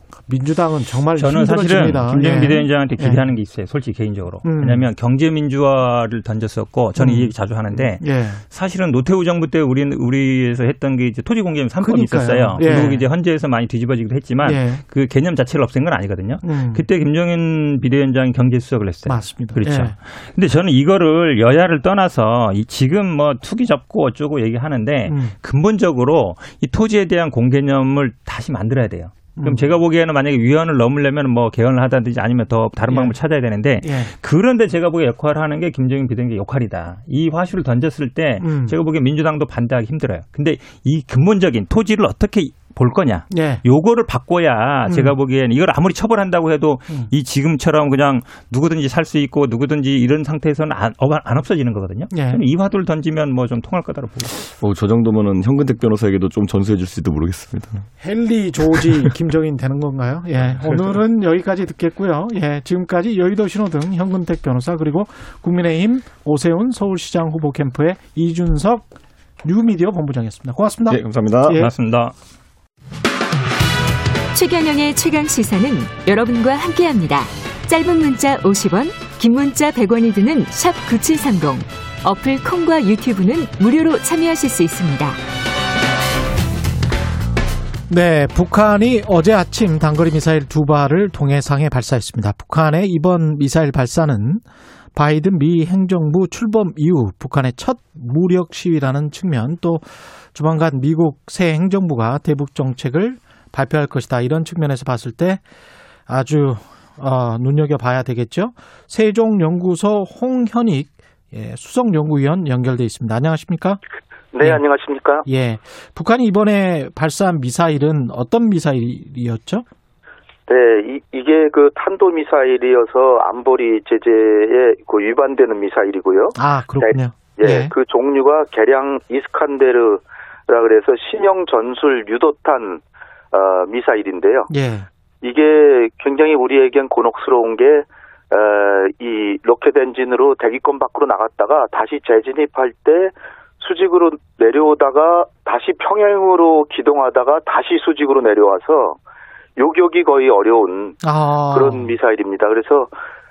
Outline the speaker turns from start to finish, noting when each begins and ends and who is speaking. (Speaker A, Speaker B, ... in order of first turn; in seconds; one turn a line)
Speaker A: 0.3-3.3
Speaker B: 1.2-54.4
Speaker A: 4.4-4.9
Speaker A: 7.0-8.4
Speaker A: 11.8-13.1
Speaker A: 14.4-14.8
Speaker A: 16.4-16.9
Speaker A: 19.1-20.0
Speaker A: 25.1-25.4
Speaker A: 29.4-29.7
Speaker A: 32.9-33.1
Speaker A: 33.8-34.1
Speaker A: 38.4-38.8
Speaker A: 43.3-43.6
Speaker A: 44.9-45.1
Speaker A: 52.1-52.4
Speaker C: 54.5-57.9
Speaker A: 58.0-68.9
Speaker C: 58.8-59.1
Speaker A: 69.4-71.7
Speaker C: 70.9-71.7
Speaker B: 71.5-72.1
Speaker D: 74.3-85.2
Speaker A: 87.9-94.4
Speaker A: 94.9-105.4
Speaker A: 106.1-113.8
Speaker E: 114.3-115.3
Speaker A: 115.2-119.7
Speaker E: 120.5-132.8
Speaker A: 126.3-127.7
Speaker E: 133.3-134.5
Speaker A: 134.5-134.9
Speaker E: 135.2-149.0
Speaker E: 149.6-152.9
Speaker A: 151.0-151.9